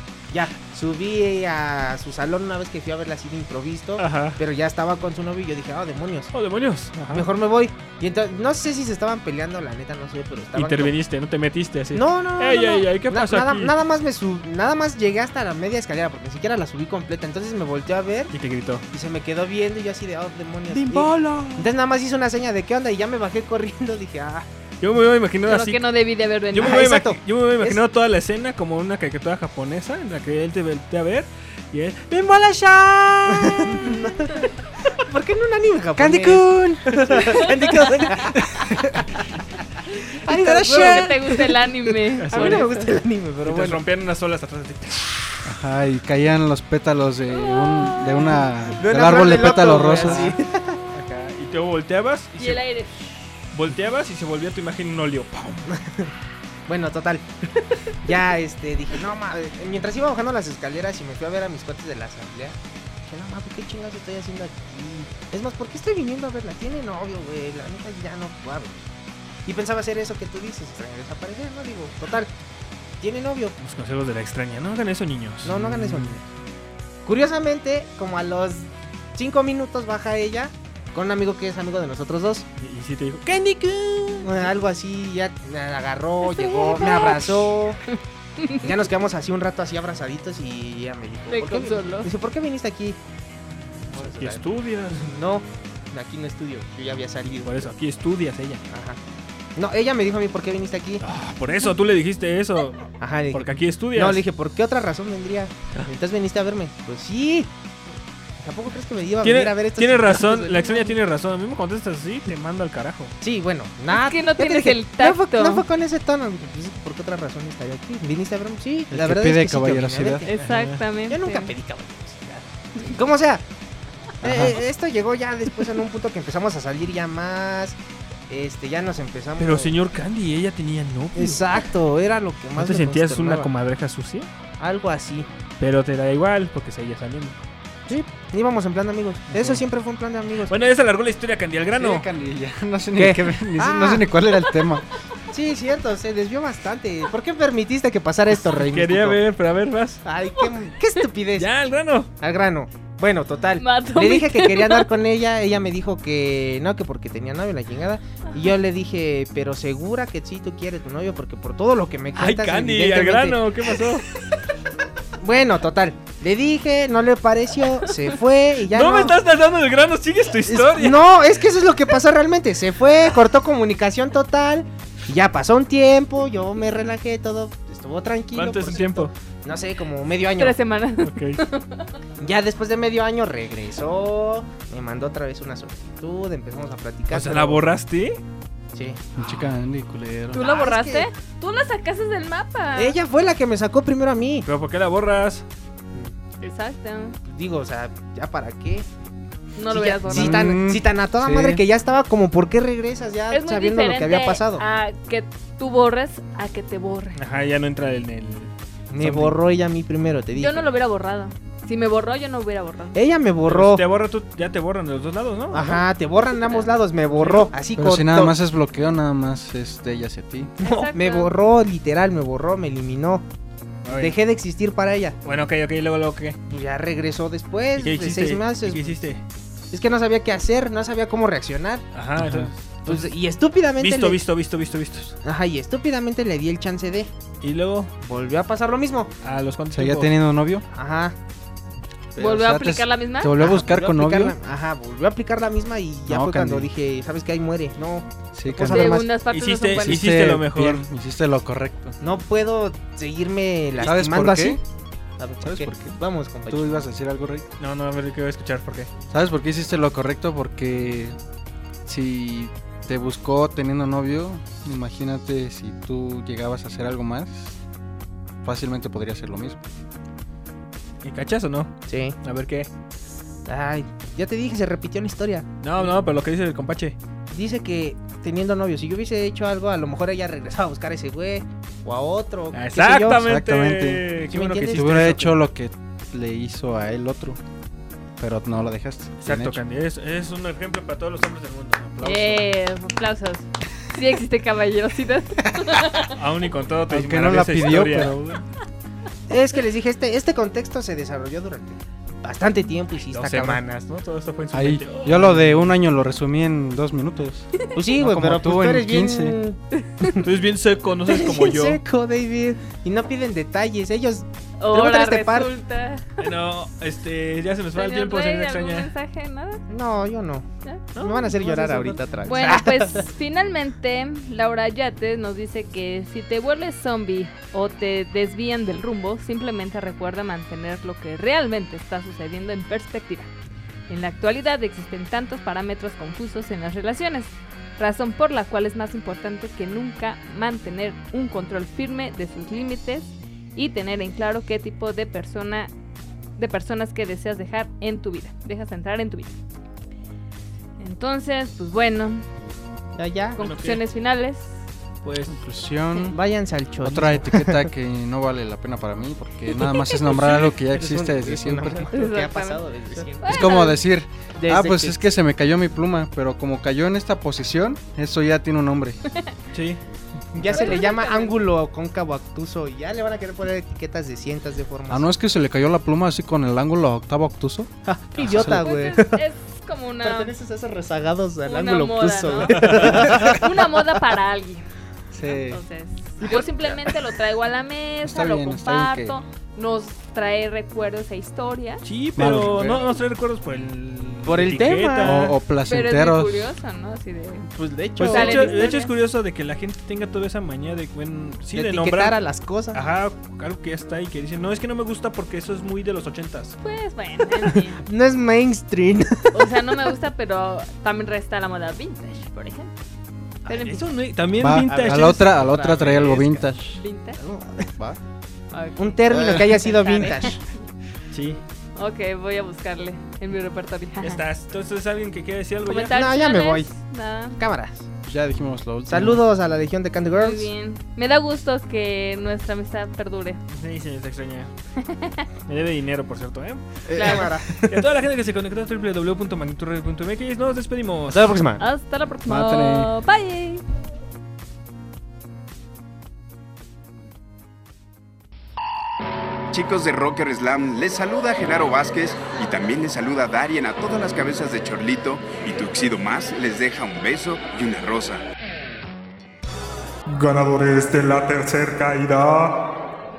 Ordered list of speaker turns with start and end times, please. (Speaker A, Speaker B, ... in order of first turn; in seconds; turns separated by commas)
Speaker A: 0.3-6.3, Speaker B: 4.0-4.4, Speaker B: 6.3-7.3, Speaker A: 7.1-11.0, Speaker B: 10.5-13.7, Speaker A: 11.9-18.3, Speaker B: 18.3-18.8, Speaker A: 18.9-24.5, Speaker B: 20.7-21.7, Speaker B: 24.8-25.8, Speaker C: 25.4-26.8, Speaker B: 26.5-34.0, Speaker A: 26.6-27.8, Speaker A: 33.2-39.6, Speaker D: 36.0-36.9, Speaker B: 36.9-38.2, Speaker D: 38.4-38.8, Speaker A: 40.2-41.7, Speaker B: 40.3-41.1, Speaker C: 40.7-42.9, Speaker B: 42.2-42.7, Speaker A: 42.3-43.8, Speaker B: 43.4-45.4, Speaker D: 45.4-50.4, Speaker C: 47.3-48.4, Speaker A: 48.8-50.8, Speaker B: 50.0-50.3, Speaker B: 50.9-52.6, Speaker C: 52.4-53.0, Speaker B: 53.5-55.7, Speaker A: 55.7-56.1, Speaker A: 56.7-57.2, Speaker A: 58.0-68.9, Speaker A: 69.5-72.3, Speaker A: 73.0-73.5, Speaker B: 73.6-76.2, Speaker A: 75.4-76.2, Speaker A: 77.0-82.4, Speaker B: 82.6-84.5, Speaker A: 84.2-87.8, Speaker C: 86.3-88.7, Speaker A: 88.6-93.0, Speaker C: 91.3-92.1, Speaker B: 93.9-95.2, Speaker A: 93.9-94.4, Speaker A: 95.0-97.7, Speaker B: 97.4-98.6, Speaker A: 98.7-99.0, Speaker A: 99.5-101.0, Speaker B: 101.0-104.2, Speaker A: 103.0-107.5, Speaker A: 108.4-110.8, Speaker B: 109.2-113.1, Speaker A: 113.2-120.3, Speaker C: 113.9-115.6, Speaker D: 118.9-120.2, Speaker C: 120.2-121.5, Speaker B: 120.3-120.8, Speaker A: 121.1-123.4, Speaker A: 124.2-127.8, Speaker D: 124.2-124.6, Speaker A: 128.3-129.8, Speaker B: 129.4-131.6, Speaker A: 131.2-133.5, Speaker B: 132.6-134.3, Speaker A: 134.6-135.3, Speaker B: 135.6-137.4, Speaker A: 137.9-140.7, Speaker B: 139.3-139.6, Speaker B: 140.5-142.1, Speaker D: 141.7-144.9, Speaker A: 142.9-144.1, Speaker A: 145.3-149.2, Speaker B: 148.4-150.0, Speaker A: 150.0-151.5, Speaker B: 151.4-152.1, Speaker A: 152.2-163.4, Speaker C: 153.6-154.9, Speaker B: 162.1-164.1, Speaker A: 165.2-169.2, Speaker B: 168.7-171.1, Speaker A: 170.5-180.6, Speaker B: 178.3-179.1, Speaker C: 180.4-181.9, Speaker B: 181.0-181.4, Speaker A: 182.2-187.6, Speaker B: 187.1-188.2, Speaker A: 188.7-189.0, Speaker D: 189.2-190.5, Speaker C: 190.3-192.9, Speaker A: 190.3-191.1, Speaker A: 192.7-194.5, Speaker B: 194.4-195.4, Speaker C: 196.4-197.2, Speaker A: 197.2-198.9, Speaker C: 199.6-200.4, Speaker A: 199.7-204.6, Speaker D: 200.1-201.6, Speaker C: 203.3-207.2, Speaker B: 207.2-208.5, Speaker A: 208.9-210.7, Speaker D: 209.0-209.3, Speaker C: 210.3-213.0, Speaker A: 212.9-213.8, Speaker B: 213.4-215.8, Speaker A: 215.5-218.3, Speaker C: 216.4-216.7, Speaker B: 217.1-217.5, Speaker D: 217.8-220.5, Speaker C: 220.6-221.3, Speaker A: 220.6-223.2, Speaker B: 223.8-224.2, Speaker A: 223.9-225.2, Speaker B: 225.2-226.4, Speaker A: 226.5-229.0, Speaker B: 227.8-229.2, Speaker A: 229.7-231.8, Speaker B: 231.9-233.1, Speaker D: 232.2-232.5, Speaker A: 232.8-234.2, Speaker B: 233.8-235.2, Speaker A: 235.2-237.1, Speaker B: 237.4-237.9, Speaker A: 238.0-239.1, Speaker B: 239.2-240.1, Speaker D: 239.7-240.6, Speaker A: 240.7-241.2, Speaker D: 242.1-244.3, Speaker C: 242.2-243.3, Speaker A: 243.3-249.1, Speaker D: 246.1-246.7, Speaker D: 248.3-249.1, Speaker C: 248.7-250.1, Speaker B: 249.3-250.8, Speaker D: 249.8-252.0, Speaker A: 252.0-254.6, Speaker D: 253.8-254.6, Speaker A: 255.2-256.8, Speaker D: 255.4-257.5, Speaker B: 257.6-258.9, Speaker D: 259.1-261.2, Speaker D: 261.9-267.6, Speaker D: 268.4-269.6, Speaker B: 271.0-272.7, Speaker A: 271.9-272.1, Speaker A: 273.4-275.9, Speaker B: 275.6-277.0, Speaker A: 277.3-283.2, Speaker B: 282.5-285.4, Speaker D: 283.2-284.1, Speaker A: 284.3-285.0, Speaker D: 284.7-287.4, Speaker D: 288.2-289.6, Speaker B: 289.2-291.8, Speaker D: 291.8-292.4, Speaker C: 292.0-296.1, Speaker B: 296.1-298.4, Speaker D: 296.9-298.2, Speaker A: 299.3-303.6, Speaker B: 303.1-305.7, Speaker D: 304.5-309.4, Speaker A: 307.7-310.2, Speaker C: 309.8-310.1, Speaker B: 310.2-311.8, Speaker A: 311.2-315.5, Speaker C: 314.6-316.2, Speaker B: 316.2-318.9, Speaker C: 317.7-319.6, Speaker A: 319.7-320.4, Speaker B: 320.9-322.6, Speaker A: 321.0-323.1, Speaker C: 322.2-333.3, Speaker C: 333.9-345.7, Speaker C: 346.4-349.4, Speaker C: 350.8-352.2, Speaker A: 352.9-353.4, Speaker C: 353.4-354.6, Speaker B: 353.4-353.8, Speaker B: 355.0-355.4, Speaker D: 355.3-356.2, Speaker A: 356.1-357.7, Speaker D: 356.8-361.9, Speaker B: 360.1-360.7, Speaker A: 360.7-363.6, Speaker C: 361.9-363.8, Speaker D: 363.3-369.0, Speaker A: 364.4-365.1, Speaker C: 369.1-369.3, Speaker B: 369.5-369.8, Speaker A: 370.3-375.1, Speaker B: 370.5-370.8, Speaker C: 370.5-371.4, Speaker D: 374.9-378.7, Speaker A: 377.9-379.1, Speaker C: 378.4-380.3, Speaker A: 380.0-384.0, Speaker C: 381.4-384.6, Speaker B: 382.5-383.1, Speaker D: 385.1-385.6, Speaker C: 385.3-391.8, Speaker A: 386.2-386.4, Speaker D: 388.0-389.2, Speaker B: 391.8-395.3, Speaker D: 392.1-392.9, Speaker A: 394.2-395.3, Speaker D: 395.0-396.5, Speaker C: 395.6-397.5, Speaker A: 397.5-398.6, Speaker B: 398.0-402.2, Speaker C: 398.1-398.9, Speaker A: 401.5-402.8, Speaker B: 402.7-406.6, Speaker C: 406.6-407.8, Speaker A: 407.5-409.4, Speaker C: 409.3-412.7, Speaker C: 413.5-413.8, Speaker B: 413.5-416.2, Speaker D: 414.4-416.8, Speaker A: 415.4-416.4, Speaker C: 416.7-417.2, Speaker A: 417.2-418.0, Speaker C: 418.5-420.4, Speaker A: 418.8-420.4, Speaker B: 421.1-421.4, Speaker C: 421.8-424.2, Speaker B: 424.0-425.9, Speaker C: 425.6-427.4, Speaker A: 425.9-426.7, Speaker A: 427.4-427.9, Speaker D: 428.0-429.2, Speaker A: 428.9-430.5, Speaker C: 430.1-433.4, Speaker B: 433.5-434.5, Speaker C: 434.8-435.2, Speaker B: 435.5-441.3, Speaker A: 436.9-437.8, Speaker A: 441.1-441.6, Speaker C: 441.6-443.6, Speaker D: 442.2-442.9, Speaker E: 449.5-458.2, Speaker F: 460.1-462.6